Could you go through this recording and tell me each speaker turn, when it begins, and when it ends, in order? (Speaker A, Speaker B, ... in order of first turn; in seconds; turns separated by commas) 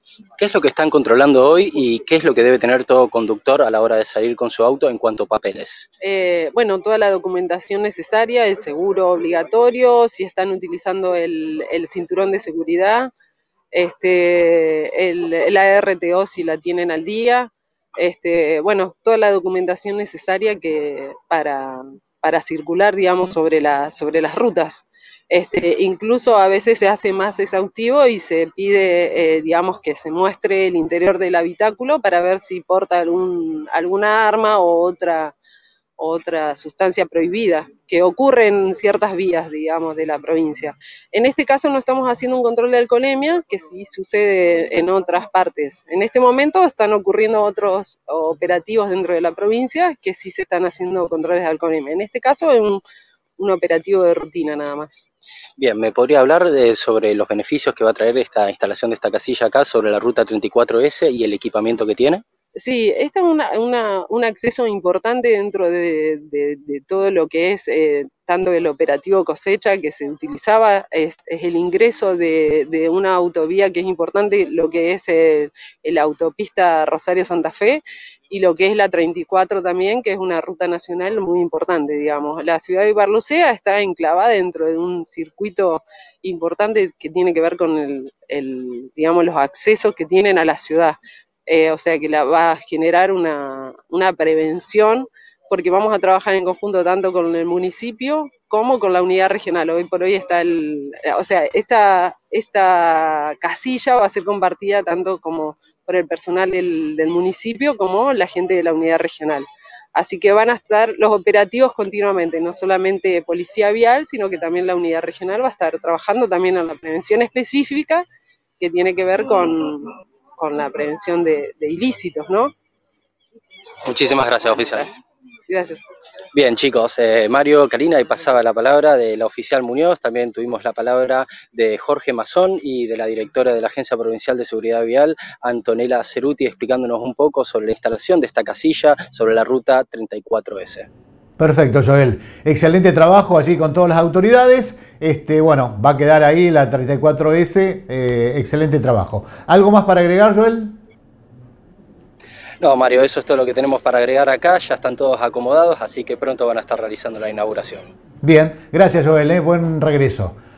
Speaker A: 0.4-5.9, Speaker B: 6.0-13.1, Speaker B: 13.7-35.4, Speaker B: 36.0-52.8, Speaker B: 53.4-55.0, Speaker A: 55.6-62.2, Speaker B: 62.5-118.0, Speaker B: 118.6-122.5, Speaker A: 123.9-125.0, Speaker B: 125.5-125.8, Speaker A: 126.3-140.9, Speaker C: 141.4-150.8, Speaker A: 152.6-157.9, Speaker C: 158.2-160.4